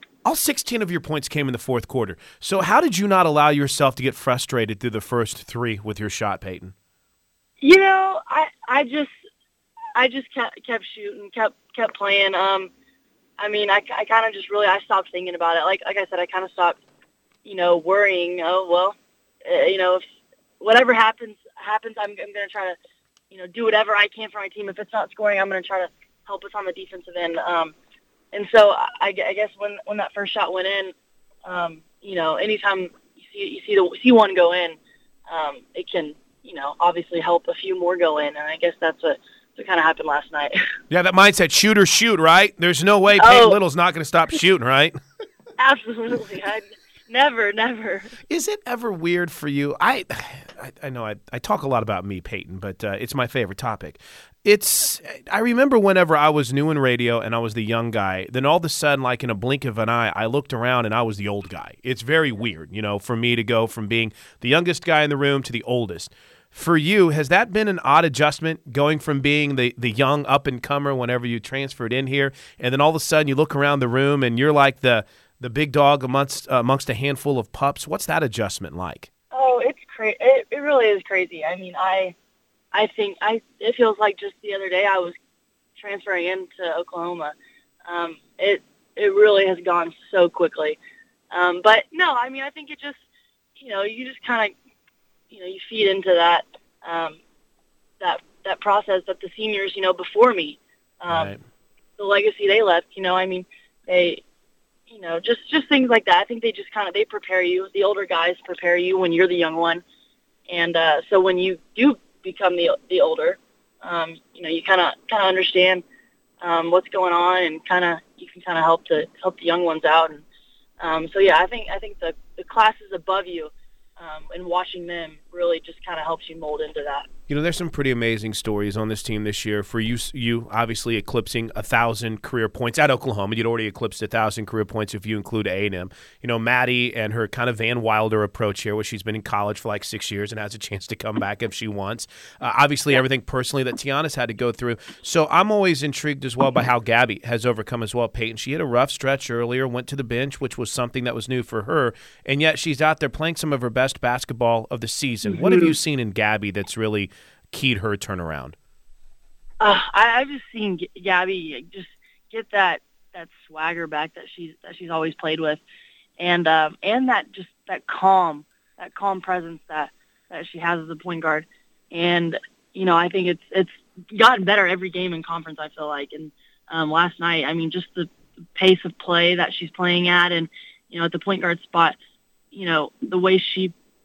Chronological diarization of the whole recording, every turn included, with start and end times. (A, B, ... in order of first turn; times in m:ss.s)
0:00.2-0:06.7 A
0:07.6-0:09.1 B
0:10.0-0:12.7 B
0:13.4-0:16.8 B
0:17.4-0:20.0 B
0:20.6-0:22.8 B
0:23.3-0:27.8 B
0:28.3-0:30.9 B
0:31.5-0:40.6 B
0:40.9-0:45.0 A
0:43.2-0:43.6 B
0:45.6-0:48.2 B
0:48.3-1:19.1 A
1:19.3-1:22.2 B
1:22.7-1:25.2 B
1:25.8-1:27.3 B
1:27.9-1:30.8 B
1:31.3-1:33.0 B
1:33.6-1:34.5 B
1:35.3-1:37.2 B
1:38.0-1:41.3 B
1:41.1-1:41.4 A
1:42.0-1:44.2 B
1:44.9-1:49.8 B
1:50.5-1:55.8 B
1:56.4-2:00.2 B
2:00.8-2:07.1 B
2:07.3-2:38.6 A
2:35.2-2:35.8 B
2:39.6-2:45.6 B
2:46.2-3:02.0 B
3:02.5-3:03.7 B